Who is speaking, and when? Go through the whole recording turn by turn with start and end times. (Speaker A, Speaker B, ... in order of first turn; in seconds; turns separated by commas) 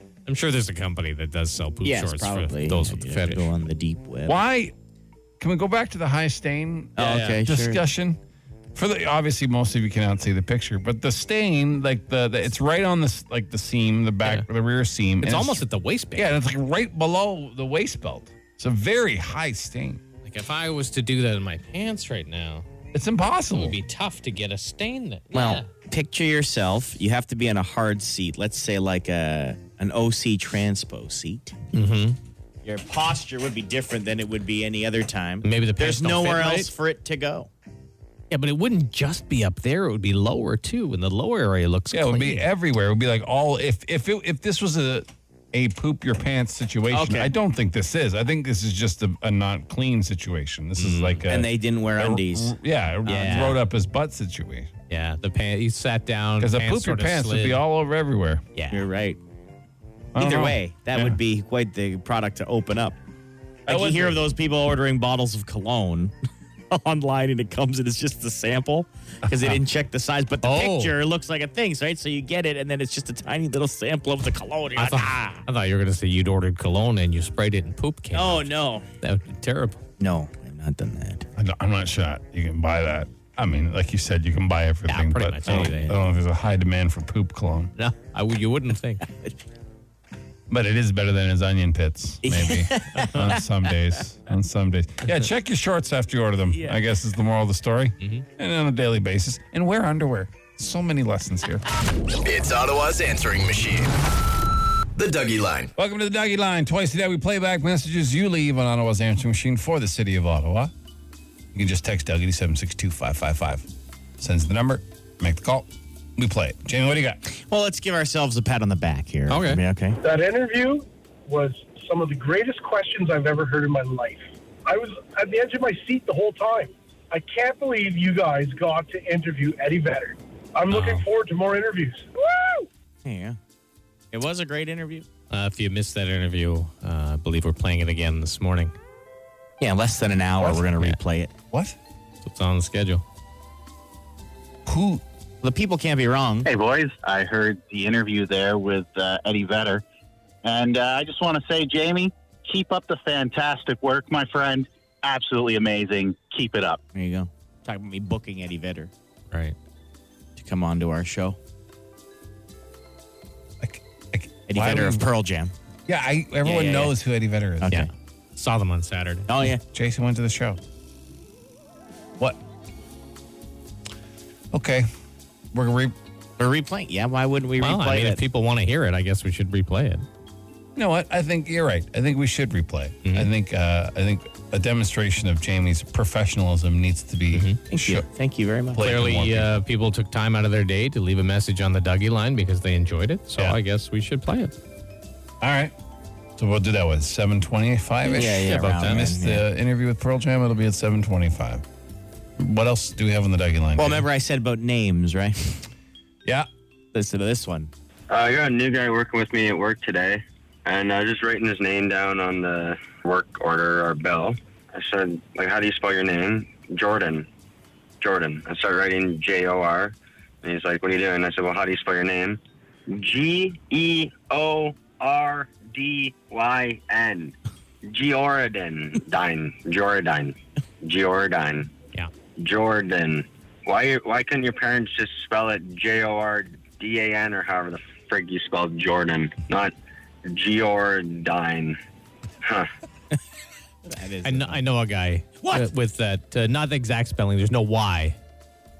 Speaker A: 0.3-3.5, Speaker B: 1.8-4.4, Speaker C: 4.3-4.7, Speaker C: 5.4-8.2, Speaker B: 7.0-7.8, Speaker C: 8.8-15.6, Speaker A: 15.2-16.3, Speaker C: 16.1-20.0, Speaker A: 20.2-22.7, Speaker C: 22.9-23.8, Speaker A: 23.5-25.7, Speaker B: 25.3-31.6, Speaker A: 31.7-32.2, Speaker B: 32.6-37.5, Speaker A: 35.4-36.7, Speaker A: 38.3-42.5, Speaker C: 41.9-54.7, Speaker B: 46.9-47.3, Speaker A: 50.8-51.2, Speaker B: 51.3-52.5, Speaker B: 53.1-53.6, Speaker A: 54.9-57.6, Speaker C: 56.4-58.4, Speaker A: 58.6-58.8, Speaker B: 58.7-59.2, Speaker C: 60.1-61.2, Speaker B: 60.2-63.0, Speaker C: 63.7-64.2, Speaker B: 63.7-66.1, Speaker B: 66.7-75.4, Speaker A: 70.4-71.0, Speaker A: 74.8-79.8, Speaker B: 78.1-78.9, Speaker B: 80.0-81.3, Speaker C: 81.4-87.7, Speaker A: 84.9-86.0, Speaker B: 85.5-85.9, Speaker A: 87.8-89.0, Speaker C: 90.5-101.7, Speaker B: 92.2-93.4, Speaker A: 93.0-93.4, Speaker B: 96.5-96.8, Speaker A: 98.0-98.2, Speaker D: 102.2-103.9, Speaker D: 105.0-105.7, Speaker C: 105.8-110.7, Speaker C: 111.5-113.7, Speaker C: 114.2-117.2, Speaker B: 117.3-120.0, Speaker A: 119.3-119.6, Speaker E: 120.0-132.7, Speaker A: 130.7-131.1, Speaker B: 133.0-133.4, Speaker B: 134.1-135.1, Speaker A: 135.3-138.8, Speaker B: 139.6-141.3, Speaker C: 141.5-141.8, Speaker A: 142.2-143.0, Speaker C: 144.7-145.0, Speaker B: 145.4-146.5, Speaker F: 146.4-149.8, Speaker F: 150.4-156.8, Speaker B: 156.9-158.9, Speaker B: 160.4-161.4, Speaker C: 163.6-165.1, Speaker B: 164.5-165.5, Speaker C: 165.9-167.8, Speaker B: 166.4-166.9, Speaker B: 167.6-167.9, Speaker A: 167.7-169.5, Speaker B: 169.3-169.6, Speaker C: 169.7-170.6, Speaker C: 174.5-174.9, Speaker C: 175.5-175.9, Speaker B: 176.4-178.2, Speaker A: 177.6-180.1, Speaker C: 180.8-188.1, Speaker A: 183.0-183.3, Speaker A: 187.3-187.6, Speaker B: 187.7-188.9, Speaker C: 188.7-189.6, Speaker A: 188.8-194.5, Speaker C: 195.4-195.7, Speaker C: 196.4-201.7, Speaker B: 198.1-199.4, Speaker A: 198.4-199.1, Speaker C: 202.4-204.1, Speaker B: 203.8-205.6, Speaker B: 206.9-207.7, Speaker G: 208.1-217.3, Speaker G: 218.0-231.7, Speaker G: 232.4-239.7, Speaker G: 240.2-241.8, Speaker G: 242.4-242.7, Speaker B: 243.9-244.6, Speaker A: 244.2-248.2, Speaker B: 245.4-245.7